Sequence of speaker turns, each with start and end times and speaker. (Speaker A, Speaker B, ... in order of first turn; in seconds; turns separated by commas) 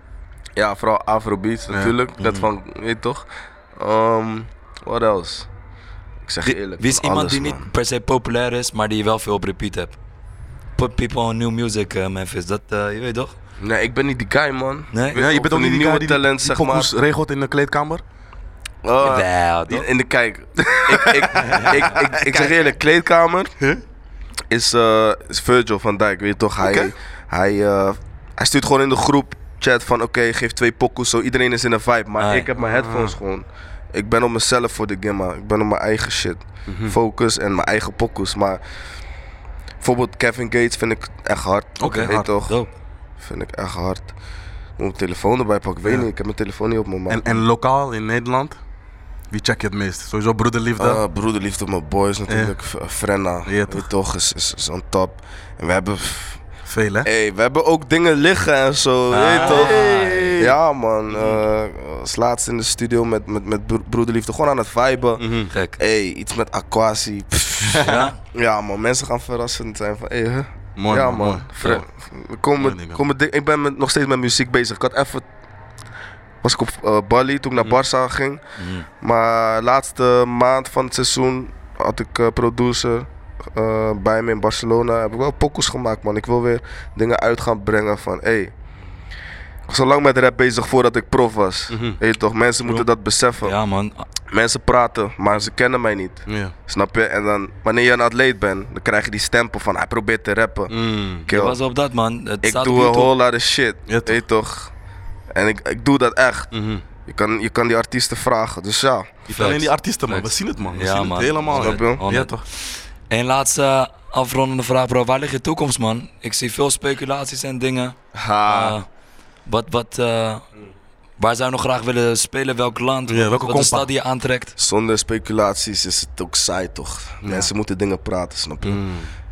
Speaker A: 0.6-5.5, Speaker B: 2.2-2.5, Speaker A: 6.3-7.7, Speaker B: 6.4-10.0, Speaker B: 10.8-13.3, Speaker A: 13.6-16.9, Speaker B: 14.9-15.2, Speaker C: 15.2-18.0, Speaker A: 18.8-23.5, Speaker B: 19.0-19.9, Speaker C: 20.9-22.5, Speaker B: 21.4-21.7, Speaker A: 24.5-38.6, Speaker C: 26.6-26.9, Speaker B: 32.2-32.5, Speaker C: 32.6-33.2, Speaker C: 36.7-37.0, Speaker A: 39.8-42.6, Speaker C: 41.8-42.3, Speaker B: 41.8-42.7, Speaker A: 43.2-44.1, Speaker A: 44.8-47.2, Speaker C: 47.1-48.6, Speaker C: 49.3-51.0, Speaker A: 50.8-56.4, Speaker C: 52.3-52.6, Speaker C: 53.5-53.9, Speaker C: 56.7-57.1, Speaker A: 57.0-75.2, Speaker B: 59.1-60.4, Speaker C: 59.4-60.5, Speaker C: 61.1-61.4, Speaker C: 65.2-65.5, Speaker B: 65.5-65.8, Speaker C: 67.6-68.1, Speaker B: 67.8-68.2, Speaker C: 70.8-71.5, Speaker C: 72.6-73.0, Speaker A: 76.4-78.4, Speaker B: 78.6-78.9, Speaker A: 79.0-88.5, Speaker A: 89.7-93.5, Speaker C: 91.7-92.0, Speaker B: 93.4-94.0, Speaker A: 94.3-101.6, Speaker C: 96.3-96.5, Speaker C: 100.7-101.3, Speaker B: 101.3-103.1, Speaker A: 102.4-104.7, Speaker C: 103.9-104.2, Speaker A: 105.3-106.5, Speaker C: 106.5-106.8, Speaker A: 107.1-109.1, Speaker C: 109.3-112.4, Speaker B: 109.3-118.9, Speaker A: 111.5-112.0, Speaker A: 118.1-118.8, Speaker B: 119.5-120.4, Speaker B: 121.2-124.5, Speaker C: 123.1-123.9, Speaker A: 124.6-128.8, Speaker C: 127.2-127.5, Speaker C: 128.6-129.1